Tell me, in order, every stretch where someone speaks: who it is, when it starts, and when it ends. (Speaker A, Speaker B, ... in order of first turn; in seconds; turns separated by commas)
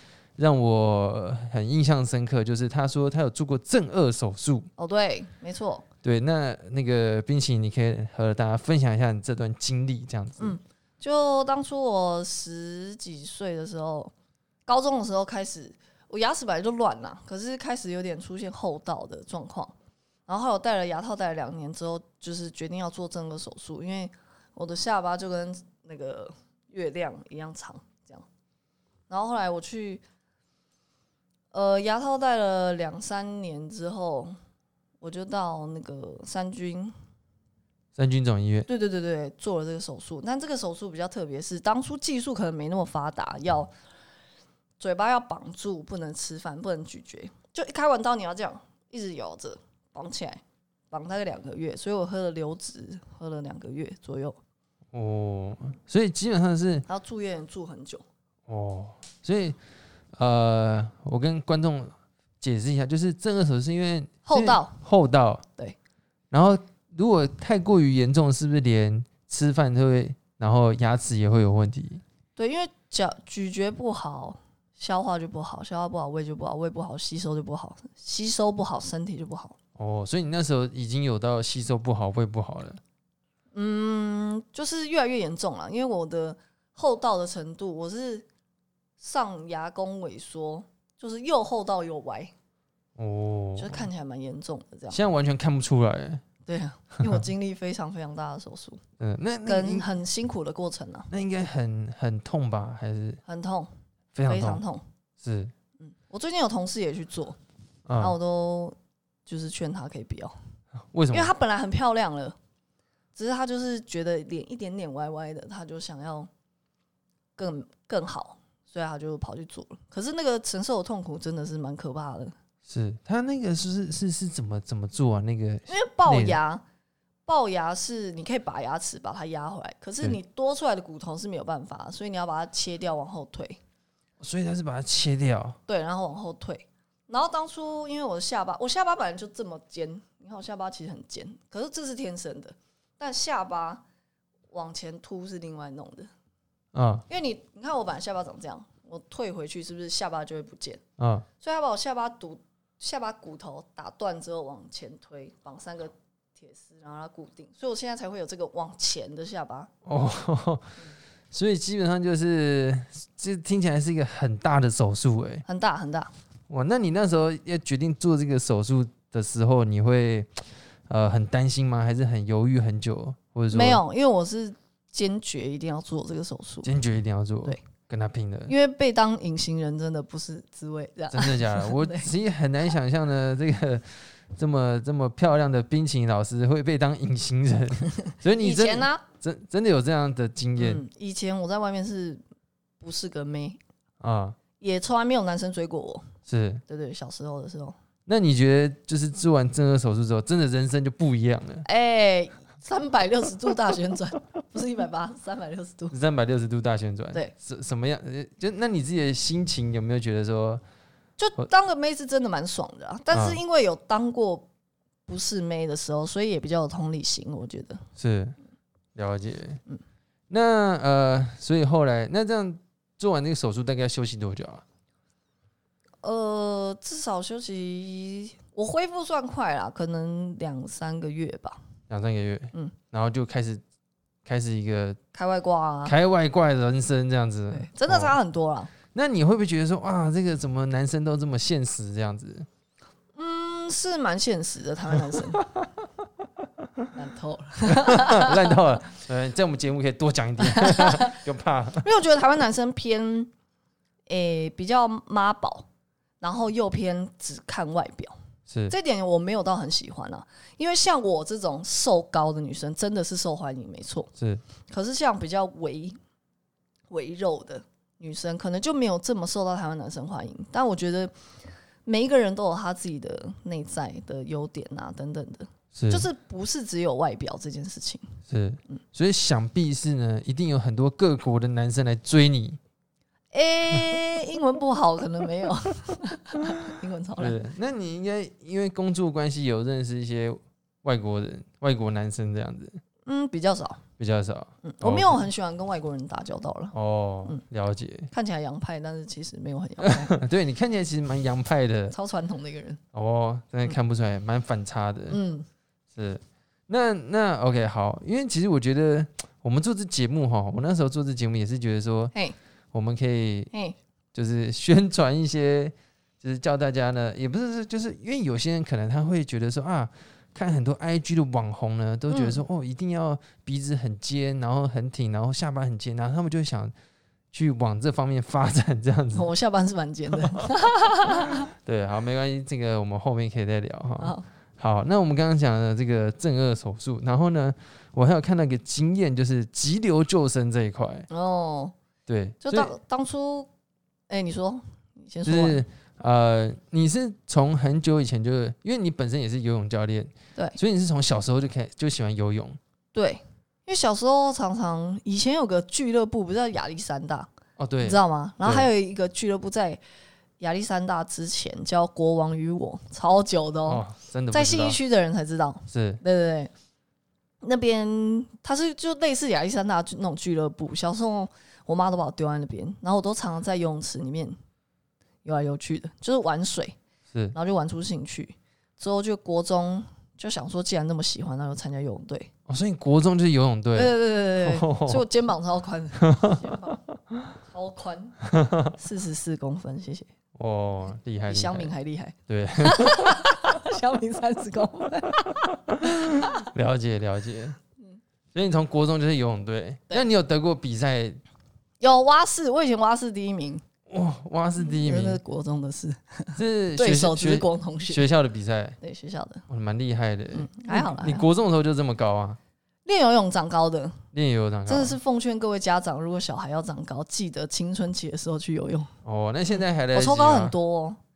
Speaker A: 0.4-4.7, Speaker B: 4.8-5.8, Speaker A: 6.0-10.6, Speaker B: 10.4-14.1, Speaker B: 14.7-19.7, Speaker B: 20.3-28.2, Speaker B: 29.1-30.0, Speaker B: 31.5-34.3, Speaker B: 35.0-36.9, Speaker A: 37.9-38.7, Speaker B: 38.7-43.7, Speaker B: 44.8-54.4, Speaker A: 54.9-56.9, Speaker B: 56.9-58.0, Speaker A: 58.5-59.6, Speaker A: 60.1-65.4, Speaker B: 64.2-64.8, Speaker A: 66.3-72.0, Speaker B: 72.4-79.5, Speaker A: 79.8-82.8, Speaker B: 83.5-88.2, Speaker B: 89.0-92.3, Speaker A: 93.0-93.9, Speaker B: 93.6-95.0, Speaker A: 94.9-96.2, Speaker B: 96.5-98.8, Speaker A: 99.0-99.9, Speaker B: 99.5-101.1, Speaker A: 101.1-103.2, Speaker B: 103.2-103.7, Speaker A: 104.1-104.6, Speaker B: 104.3-104.8, Speaker A: 105.2-105.5, Speaker B: 105.8-107.4, Speaker A: 107.8-108.2, Speaker B: 108.0-110.3, Speaker A: 110.9-111.3, Speaker B: 111.1-112.3, Speaker B: 113.2-116.3, Speaker B: 117.3-122.3, Speaker A: 122.7-126.4, Speaker B: 125.7-126.6, Speaker B: 127.2-133.6, Speaker A: 134.2-135.6, Speaker B: 135.7-143.8, Speaker B: 144.5-146.1, Speaker A: 146.7-147.0, Speaker B: 147.1-150.8, Speaker A: 151.0-151.2, Speaker B: 151.4-159.7, Speaker A: 159.8-160.7, Speaker A: 161.3-165.4, Speaker B: 165.4-166.1, Speaker A: 166.5-173.8, Speaker B: 173.5-176.7, Speaker A: 176.6-178.5, Speaker B: 178.5-182.1, Speaker A: 181.1-190.8, Speaker B: 188.4-189.0, Speaker B: 190.6-192.2, Speaker B: 192.8-193.6, Speaker A: 194.0-194.4, Speaker B: 194.6-196.1, Speaker A: 196.3-196.6, Speaker B: 196.7-197.8, Speaker A: 198.1-201.6, Speaker B: 201.6-205.9, Speaker A: 205.9-210.6, Speaker B: 211.2-214.5, Speaker A: 213.1-213.4, Speaker B: 215.1-217.8, Speaker A: 218.0-218.3, Speaker A: 218.9-219.6, Speaker A: 220.3-224.6, Speaker B: 226.0-231.6, Speaker A: 231.9-233.6, Speaker A: 234.2-235.0, Speaker B: 235.1-235.9, Speaker A: 235.8-238.2, Speaker B: 237.5-238.7, Speaker A: 238.9-242.5, Speaker B: 243.2-245.4, Speaker A: 245.1-245.6, Speaker B: 246.9-248.6, Speaker A: 247.7-251.8, Speaker B: 250.4-251.2, Speaker B: 251.8-253.3, Speaker B: 254.1-255.7, Speaker B: 256.2-258.2, Speaker A: 258.5-258.7, Speaker B: 258.7-264.1, Speaker A: 264.1-264.4, Speaker B: 264.7-266.0, Speaker B: 266.9-271.1, Speaker B: 271.8-278.0, Speaker A: 275.7-276.1, Speaker A: 278.3-282.6, Speaker B: 283.3-287.4, Speaker A: 287.2-292.8, Speaker B: 293.1-293.8, Speaker A: 294.0-295.2, Speaker B: 294.6-296.7, Speaker A: 296.7-298.1, Speaker B: 298.1-300.1, Speaker A: 299.8-301.9, Speaker B: 301.9-302.8, Speaker A: 302.9-305.2, Speaker B: 305.1-305.4, Speaker A: 305.9-312.1, Speaker A: 312.7-313.5, Speaker B: 313.5-313.8, Speaker A: 314.1-326.7, Speaker B: 322.1-322.4, Speaker A: 327.3-329.3, Speaker B: 329.1-331.4, Speaker A: 331.6-341.1, Speaker B: 334.0-334.2, Speaker B: 341.1-341.7, Speaker A: 342.1-342.7, Speaker B: 342.4-343.5, Speaker B: 344.1-345.6, Speaker A: 345.2-352.6, Speaker B: 352.9-357.3, Speaker A: 357.6-358.7, Speaker B: 357.8-359.8, Speaker B: 360.4-366.5, Speaker A: 363.6-364.8, Speaker A: 365.7-366.0, Speaker B: 367.4-374.4, Speaker B: 375.2-376.8, Speaker B: 377.3-382.3, Speaker A: 382.5-385.1, Speaker B: 383.7-386.8, Speaker A: 386.1-386.3, Speaker B: 387.5-388.2, Speaker A: 388.3-388.8, Speaker B: 388.8-390.1, Speaker A: 390.3-391.7, Speaker B: 391.3-396.2, Speaker A: 392.3-393.2, Speaker A: 395.8-397.6, Speaker A: 398.3-401.2, Speaker B: 401.8-403.6, Speaker A: 403.9-405.2, Speaker B: 404.6-408.1, Speaker A: 406.4-408.8, Speaker B: 408.8-409.4, Speaker A: 409.5-412.4, Speaker B: 410.3-411.2, Speaker B: 412.8-414.0, Speaker A: 414.1-415.0, Speaker B: 414.7-418.9, Speaker A: 419.0-420.6, Speaker B: 419.9-421.0